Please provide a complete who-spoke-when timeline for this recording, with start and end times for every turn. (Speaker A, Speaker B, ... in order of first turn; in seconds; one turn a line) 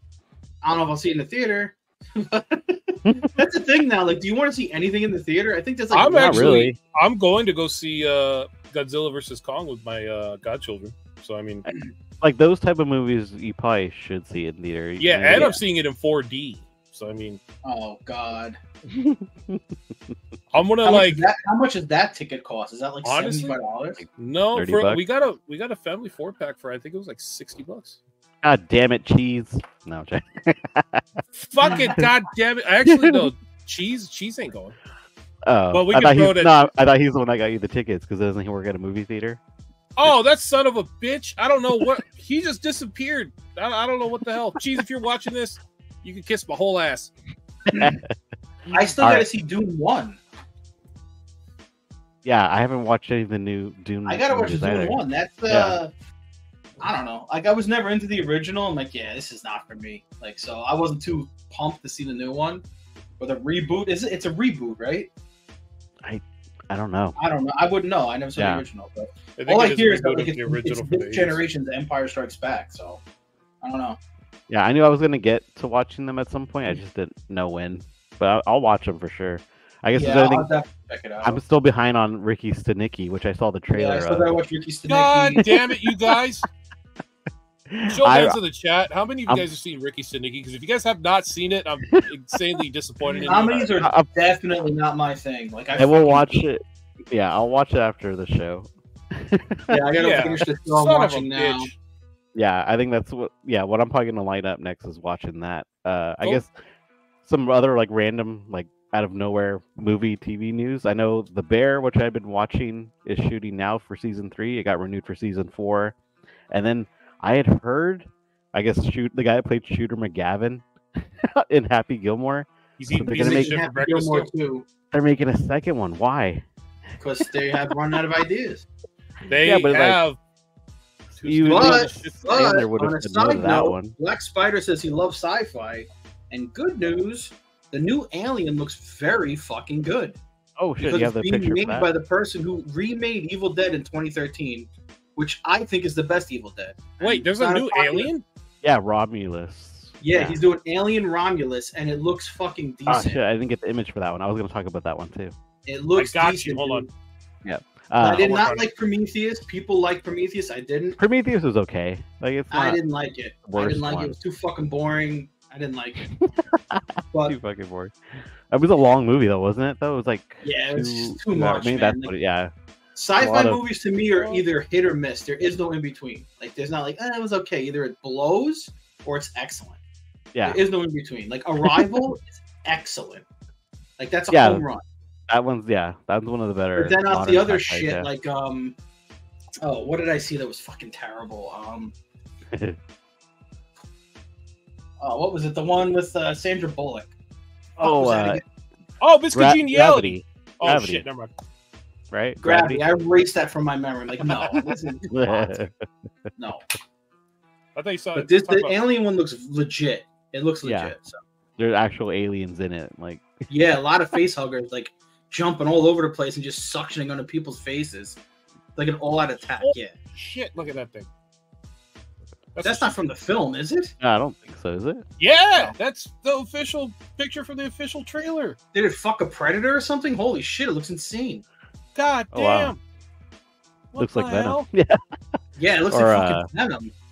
Speaker A: 0.6-6.7
Speaker B: 5.9-11.7
Speaker C: 6.2-6.8
Speaker C: 12.2-15.6
Speaker B: 15.0-17.4
Speaker A: 17.6-18.6
Speaker C: 18.9-19.6
Speaker B: 20.5-21.2
Speaker A: 20.9-24.0
Speaker B: 23.0-23.6
Speaker C: 24.0-25.0
Speaker B: 24.2-28.0
Speaker C: 28.4-31.1
Speaker B: 31.3-34.8
Speaker A: 31.7-31.9
Speaker C: 32.9-33.3
Speaker C: 35.5-39.4
Speaker B: 35.7-36.5
Speaker B: 40.0-47.1
Speaker C: 47.7-48.1
Speaker A: 48.7-50.2
Speaker C: 49.0-49.3
Speaker C: 52.2-55.8
Speaker A: 54.1-55.9
Speaker A: 56.8-62.6
Speaker A: 63.2-65.1
Speaker C: 66.0-67.2
Speaker A: 67.2-73.0
Speaker C: 68.4-68.7
Speaker B: 69.4-71.4
Speaker A: 73.6-74.0
Speaker C: 74.5-80.5
Speaker A: 79.9-81.4
Speaker C: 81.2-84.4
Speaker A: 83.7-85.5
Speaker B: 84.9-86.5
Speaker C: 87.7-88.4
Speaker B: 87.9-93.7
Speaker A: 93.2-96.3
Speaker C: 93.8-94.1
Speaker C: 95.8-100.4
Speaker A: 99.7-101.7
Speaker B: 100.0-101.8
Speaker C: 102.3-106.5
Speaker C: 107.2-116.0
Speaker C: 116.5-123.5
Speaker B: 122.8-124.3
Speaker A: 123.1-124.7
Speaker C: 124.9-126.5
Speaker A: 127.0-128.7
Speaker C: 129.2-130.0
Speaker B: 129.3-130.2
Speaker C: 131.2-133.9
Speaker B: 131.2-132.4
Speaker A: 131.5-140.2
Speaker C: 140.6-141.9
Speaker A: 140.8-148.1
Speaker B: 147.0-148.2
Speaker C: 148.6-150.4
Speaker A: 150.0-153.2
Speaker C: 152.9-155.3
Speaker A: 155.7-156.9
Speaker B: 156.0-156.9
Speaker C: 157.4-158.3
Speaker A: 158.0-161.0
Speaker B: 158.2-158.7
Speaker C: 161.0-162.8
Speaker A: 162.5-166.0
Speaker C: 163.5-164.2
Speaker C: 166.1-172.5
Speaker A: 167.1-167.4
Speaker A: 170.4-172.1
Speaker A: 172.9-179.8
Speaker C: 173.2-173.6
Speaker C: 180.3-180.6
Speaker A: 180.4-183.2
Speaker C: 181.6-182.0
Speaker A: 184.0-184.8
Speaker C: 184.3-184.7
Speaker C: 185.3-188.1
Speaker A: 186.8-188.8
Speaker A: 189.6-191.9
Speaker C: 192.5-192.8
Speaker A: 195.0-197.1
Speaker C: 197.8-198.4
Speaker A: 197.8-198.4
Speaker B: 199.0-201.3
Speaker C: 199.3-201.1
Speaker C: 202.1-202.8
Speaker A: 202.4-205.6
Speaker C: 204.5-205.9
Speaker A: 206.4-206.6
Speaker B: 207.8-208.8
Speaker A: 208.2-211.2
Speaker C: 210.6-210.9
Speaker C: 211.6-213.2
Speaker A: 213.5-218.2
Speaker A: 218.8-219.9
Speaker B: 219.6-221.1
Speaker B: 222.6-223.0
Speaker A: 222.6-223.9
Speaker C: 224.0-225.0
Speaker B: 225.2-228.6
Speaker A: 228.7-231.4
Speaker B: 231.9-232.8
Speaker C: 232.3-232.7
Speaker B: 233.9-234.7
Speaker C: 234.0-235.0
Speaker A: 235.6-236.9
Speaker C: 235.9-236.5